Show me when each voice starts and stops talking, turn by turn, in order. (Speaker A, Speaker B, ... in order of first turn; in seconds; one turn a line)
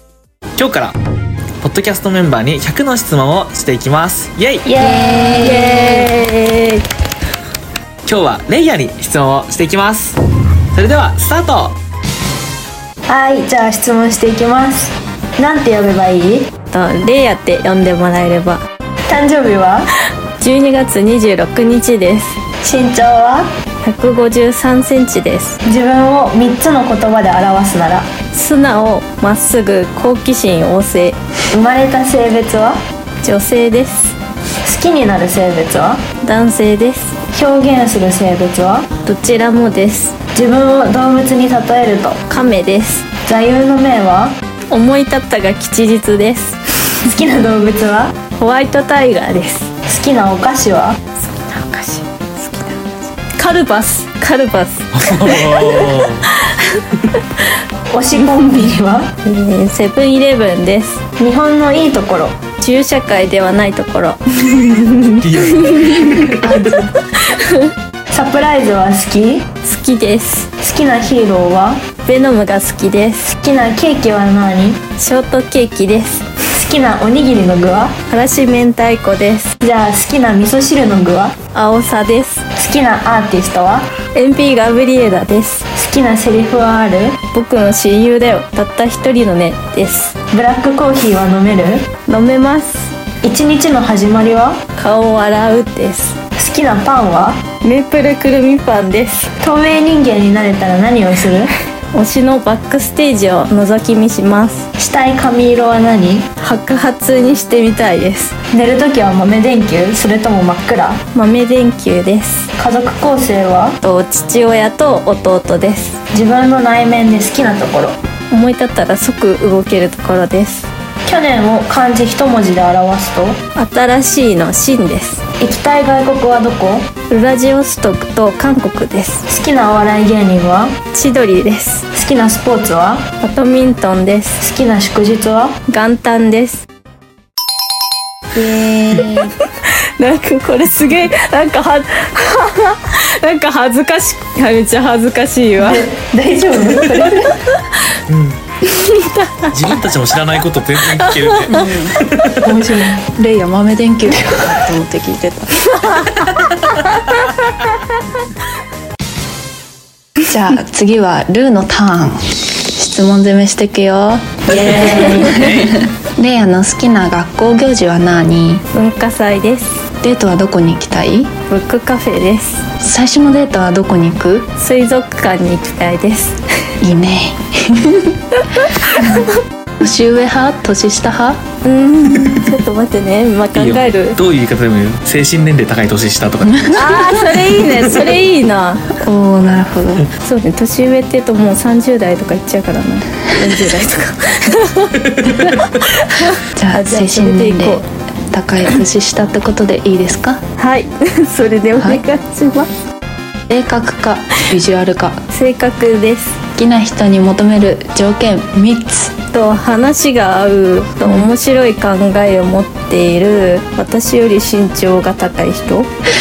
Speaker A: 0.6-0.9
Speaker A: 1.6-4.7
Speaker B: 4.6-6.0
Speaker C: 4.8-6.1
Speaker D: 5.3-6.8
Speaker A: 8.1-10.2
Speaker A: 10.7-11.8
Speaker B: 13.1-16.5
Speaker D: 16.7-18.6
Speaker B: 19.1-19.9
Speaker D: 20.4-22.4
Speaker B: 22.6-23.5
Speaker D: 23.8-25.6
Speaker B: 25.6-28.1
Speaker D: 28.3-31.2
Speaker B: 31.5-32.8
Speaker D: 33.2-34.1
Speaker B: 34.6-36.0
Speaker D: 36.2-37.1
Speaker B: 37.3-38.9
Speaker D: 39.0-40.2
Speaker B: 40.3-42.2
Speaker D: 42.3-43.1
Speaker B: 43.2-44.3
Speaker D: 44.7-47.0
Speaker B: 47.0-48.1
Speaker D: 48.3-49.7
Speaker B: 49.9-51.0
Speaker D: 51.2-56.8
Speaker A: 54.9-56.3
Speaker B: 57.9-59.1
Speaker D: 59.2-61.0
Speaker B: 61.2-62.3
Speaker D: 62.6-66.2
Speaker A: 65.2-66.7
Speaker C: 66.4-66.8
Speaker D: 67.1-67.7
Speaker B: 68.1-69.5
Speaker D: 69.6-70.5
Speaker B: 70.6-71.8
Speaker D: 72.0-73.3
Speaker B: 73.3-74.8
Speaker D: 75.0-76.3
Speaker B: 76.5-78.0
Speaker D: 78.1-79.5
Speaker B: 79.6-81.3
Speaker D: 81.5-82.5
Speaker B: 82.5-83.9
Speaker D: 84.1-85.7
Speaker B: 85.7-87.2
Speaker D: 87.3-90.2
Speaker B: 90.3-91.9
Speaker D: 92.1-92.9
Speaker B: 93.2-94.6
Speaker D: 94.8-96.2
Speaker B: 96.4-97.4
Speaker D: 97.6-99.3
Speaker B: 99.4-101.5
Speaker D: 101.9-104.7
Speaker B: 104.8-106.3
Speaker D: 106.4-108.3
Speaker B: 108.5-111.0
Speaker D: 111.1-112.5
Speaker B: 112.6-113.8
Speaker D: 113.8-116.0
Speaker B: 116.1-118.0
Speaker D: 118.3-120.7
Speaker B: 121.0-123.4
Speaker D: 123.5-125.2
Speaker B: 125.4-126.9
Speaker D: 127.1-129.2
Speaker B: 129.3-130.7
Speaker D: 130.9-131.8
Speaker B: 131.9-133.0
Speaker D: 133.2-134.4
Speaker B: 134.4-135.6
Speaker D: 135.7-136.7
Speaker C: 138.3-139.3
Speaker D: 138.9-139.2
Speaker D: 140.0-145.8
Speaker B: 145.6-147.4
Speaker A: 148.1-148.4
Speaker D: 148.6-149.5
Speaker A: 149.5-152.4
Speaker D: 151.0-151.5
Speaker C: 151.5-152.0
Speaker B: 152.4-153.0
Speaker C: 153.0-156.2
Speaker D: 155.8-156.2
Speaker C: 160.2-168.6
Speaker A: 164.5-165.8
Speaker D: 168.7-169.8
Speaker C: 170.0-171.3
Speaker D: 171.5-172.7
Speaker C: 172.8-174.5
Speaker D: 174.6-176.4
Speaker C: 176.8-178.2
Speaker D: 178.6-179.2
Speaker C: 178.9-179.2
Speaker C: 179.8-181.4
Speaker D: 181.6-184.2
Speaker C: 182.2-182.5
Speaker A: 183.5-186.9
Speaker C: 186.4-188.1
Speaker D: 186.7-188.9
Speaker C: 188.9-190.1
Speaker D: 190.2-197.8
Speaker A: 195.1-195.5
Speaker C: 196.5-200.4
Speaker D: 200.6-202.7
Speaker C: 203.5-205.2
Speaker D: 205.3-206.4
Speaker C: 206.5-209.1
Speaker D: 209.3-215.9
Speaker C: 211.0-211.3